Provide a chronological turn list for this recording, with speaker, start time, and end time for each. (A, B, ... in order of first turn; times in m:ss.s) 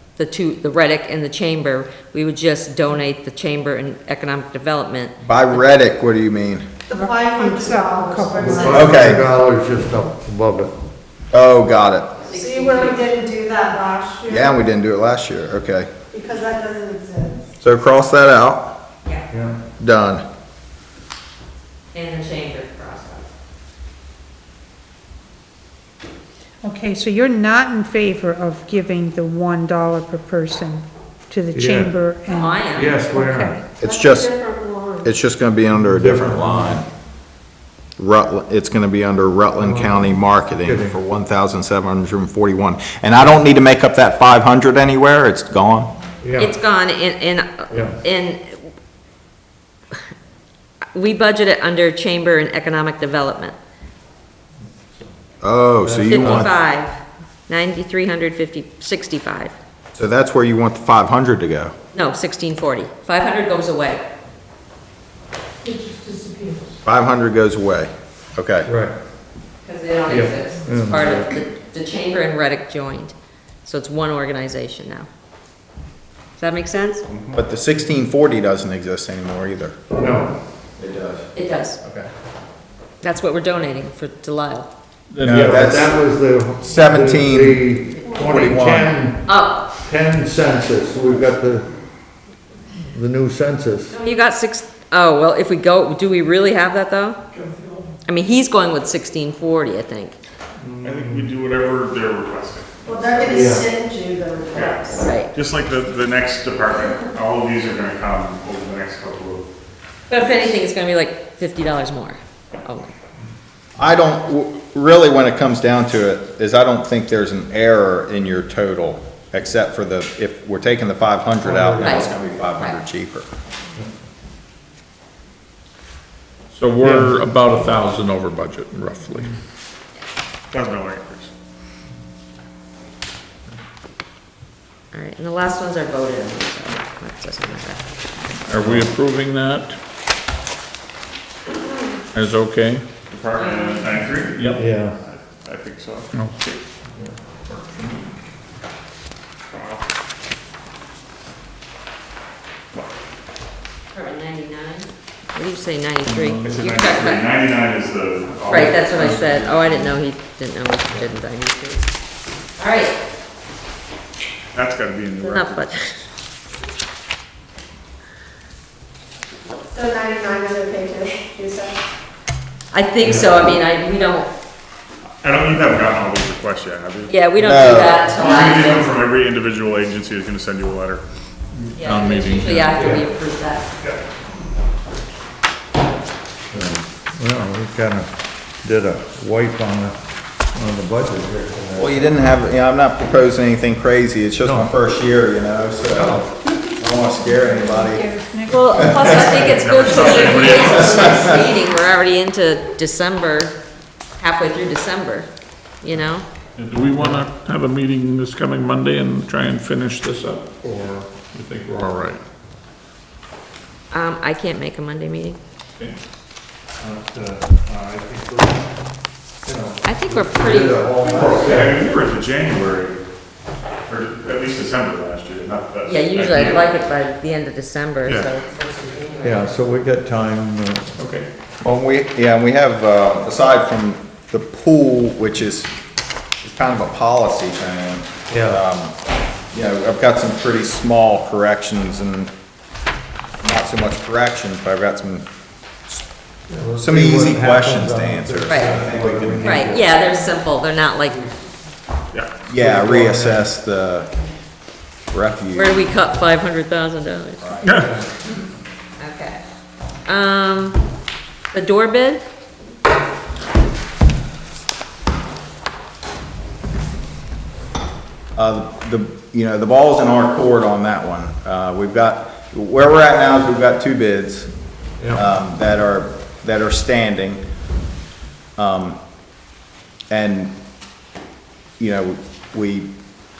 0:00.2-0:05.6 A
0:05.2-0:06.6 B
0:06.9-0:09.2 C
0:06.9-0:09.3 D
0:08.4-0:10.7 E
0:08.5-0:09.1 F
0:08.7-0:09.2 B
0:11.3-0:12.2 B
0:12.2-0:13.1 A
0:12.3-0:14.5 C
0:14.3-0:15.9 B
0:16.1-0:17.5 C
0:17.6-0:18.7 B
0:19.3-0:19.6 E
0:19.8-0:20.2 B
0:21.9-0:23.2 A
0:26.6-0:33.6 D
0:31.5-0:31.9 E
0:32.3-0:33.0 A
0:32.7-0:33.6 E
0:33.8-0:34.3 B
0:33.8-0:35.1 C
0:35.0-0:36.8 B
0:35.7-0:36.8 E
0:38.0-0:45.9 B
0:39.6-0:40.1 E
0:40.6-0:41.0 E
0:46.2-0:46.6 E
0:46.4-0:48.7 A
0:47.7-0:48.0 E
0:50.9-0:53.6 A
0:55.4-0:56.5 B
0:55.8-0:56.4 E
0:56.1-0:59.5 A
0:59.9-1:01.7 B
1:01.9-1:04.0 A
1:05.6-1:06.7 D
1:06.8-1:08.7 B
1:08.6-1:08.9 E
1:09.6-1:15.1 A
1:10.1-1:11.2 E
1:16.4-1:17.0 A
1:17.1-1:17.4 G
1:17.3-1:19.9 B
1:20.0-1:20.3 E
1:20.8-1:21.2 B
1:21.4-1:21.8 A
1:21.8-1:22.1 G
1:23.0-1:24.7 A
1:25.1-1:25.7 F
1:25.2-1:25.9 B
1:25.3-1:31.7 E
1:26.6-1:27.6 B
1:28.0-1:28.5 C
1:28.1-1:28.9 B
1:29.3-1:29.6 A
1:32.9-1:33.9 E
1:34.0-1:37.2 A
1:38.0-1:40.2 A
1:40.7-1:43.4 G
1:40.8-1:41.3 E
1:42.8-1:45.0 C
1:43.3-1:43.7 E
1:44.5-1:49.4 G
1:45.0-1:45.3 A
1:50.1-1:52.9 A
1:53.8-2:03.3 B
2:01.4-2:02.0 E
2:01.8-2:02.8 A
2:06.5-2:09.3 F
2:06.8-2:07.2 E
2:10.5-2:11.3 G
2:14.9-2:17.8 A
2:18.5-2:19.8 F
2:18.5-2:18.8 E
2:22.1-2:22.8 F
2:23.1-2:26.1 G
2:23.4-2:23.9 A
2:24.3-2:24.6 F
2:24.6-2:25.0 E
2:26.1-2:26.6 F
2:27.5-2:28.0 F
2:29.5-2:29.8 G
2:33.9-2:37.2 A
2:36.0-2:39.8 G
2:38.5-2:41.8 A
2:42.6-2:42.9 A
2:44.5-2:45.7 G
2:45.2-2:46.0 A
2:49.6-2:51.8 C
2:52.7-2:54.3 A
2:55.2-2:57.1 G
2:57.1-2:58.9 A
2:57.4-2:58.1 B
2:58.0-3:01.0 G
3:01.6-3:03.0 F
3:01.8-3:03.7 A
3:02.8-3:03.0 E
3:06.5-3:08.1 E
3:08.6-3:10.0 E
3:10.5-3:12.1 E
3:11.8-3:18.1 B
3:14.4-3:14.7 E
3:15.9-3:16.2 E
3:17.3-3:19.1 D
3:18.5-3:23.6 A
3:18.8-3:19.3 B
3:19.1-3:21.3 G
3:24.2-3:25.3 A
3:25.8-3:26.2 A
3:26.6-3:32.2 F
3:33.9-3:35.4 A
3:36.8-3:38.6 G
3:39.4-3:41.8 E
3:39.8-3:41.5 A
3:41.0-3:43.0 G
3:43.9-3:46.7 G
3:45.8-3:49.5 A
3:48.0-3:48.3 G
3:49.2-3:50.9 E
3:51.0-3:51.3 F
3:51.6-3:55.7 B
3:56.4-3:58.9 B
3:58.3-3:58.6 E
3:59.5-4:02.3 B
4:03.4-4:05.3 B
4:06.5-4:09.9 E
4:06.8-4:09.7 B
4:08.4-4:08.8 A
4:09.4-4:11.3 A
4:12.1-4:12.4 G
4:12.4-4:14.1 B
4:12.6-4:13.5 E
4:15.1-4:15.7 B
4:15.5-4:17.6 A
4:17.4-4:17.9 B
4:17.6-4:17.9 G
4:19.0-4:19.4 A
4:20.0-4:20.8 A
4:21.5-4:22.2 A
4:28.4-4:34.5 B
4:35.1-4:37.4 B
4:38.6-4:39.0 B
4:40.1-4:40.5 B
4:41.8-4:42.9 B